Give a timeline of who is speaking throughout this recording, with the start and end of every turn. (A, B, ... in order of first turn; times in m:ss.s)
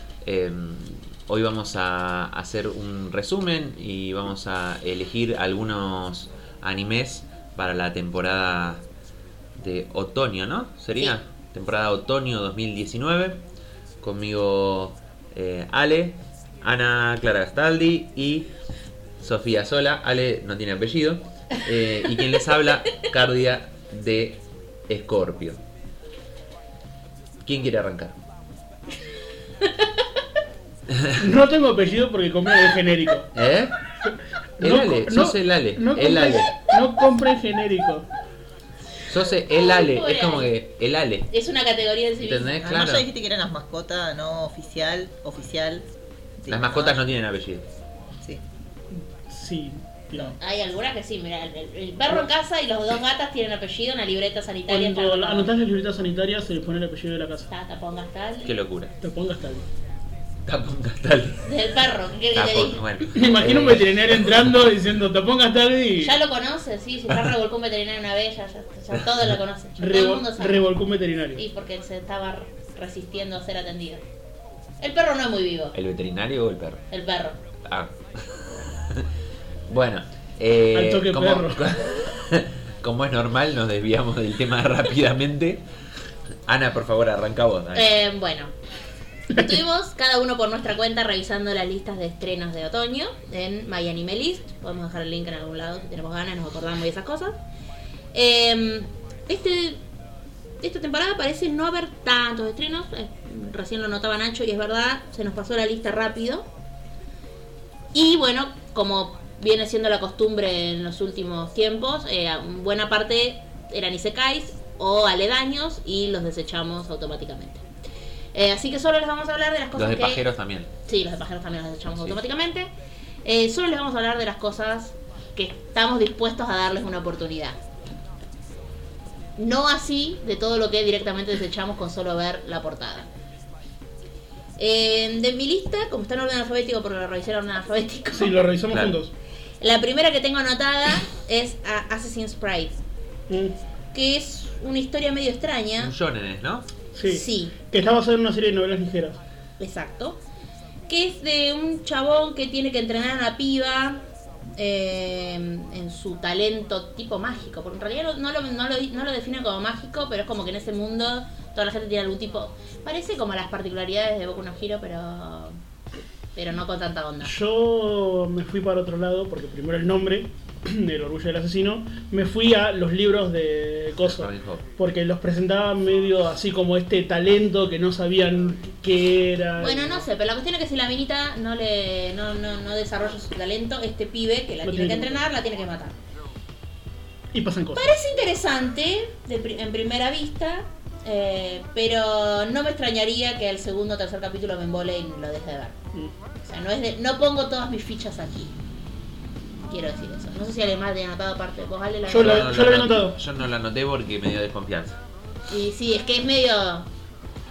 0:00.2-0:08.8 A
0:09.6-0:13.4 A
0:14.0-0:18.5 A
0:19.2-0:25.6 A
0:27.4-0:28.2 A
0:30.9-0:31.2 A
0:31.2-0:33.3 B
0:33.3-0:33.8 A
0:34.6-0:36.5 A
0:34.6-0:38.1 B
0:39.1-0:41.3 A
0:39.6-0:40.5 C
0:41.3-0:42.6 C
0:42.2-0:43.0 A
0:42.6-0:45.8 D
0:46.4-0:47.0 D
0:46.5-0:47.7 A
0:49.3-0:50.4 B
0:50.4-0:55.5 C
0:54.7-0:57.5 B
0:57.5-0:58.5 C
0:58.4-0:58.9 A
0:59.0-0:59.6 B
1:00.4-1:01.4 A
1:01.4-1:02.8 C
1:02.3-1:04.4 A
1:03.1-1:06.2 B
1:06.0-1:10.6 C
1:09.8-1:11.4 B
1:11.4-1:14.0 C
1:14.8-1:15.7 C
1:15.7-1:16.8 A
1:16.9-1:17.4 C
1:17.6-1:19.0 A
1:19.7-1:25.6 A
1:20.7-1:21.6 B
1:26.5-1:28.0 A
1:27.7-1:28.5 C
1:29.3-1:37.4 C
1:38.1-1:39.8 C
1:40.6-1:46.5 C
1:47.9-1:57.6 C
1:58.3-2:00.2 C
1:59.8-2:00.7 A
2:00.8-2:02.7 C
2:03.2-2:07.6 C
2:09.4-2:13.1 C
2:14.6-2:18.4 C
2:18.2-2:19.1 B
2:18.7-2:19.0 A
2:19.6-2:22.7 C
2:23.3-2:23.5 B
2:23.9-2:25.9 C
2:25.8-2:26.7 A
2:26.9-2:29.2 B
2:27.1-2:27.6 C
2:29.6-2:30.2 C
2:30.9-2:34.0 C
2:34.6-2:45.6 C
2:46.4-2:47.3 C
2:47.2-3:00.0 B
2:54.0-2:54.6 A
2:59.6-3:06.0 C
3:04.6-3:05.2 B
3:07.3-3:07.9 B
3:07.7-3:15.7 C
3:16.4-3:18.5 C
3:19.7-3:22.6 C
3:22.1-3:23.2 B
3:22.1-3:25.0 A
3:25.5-3:26.9 C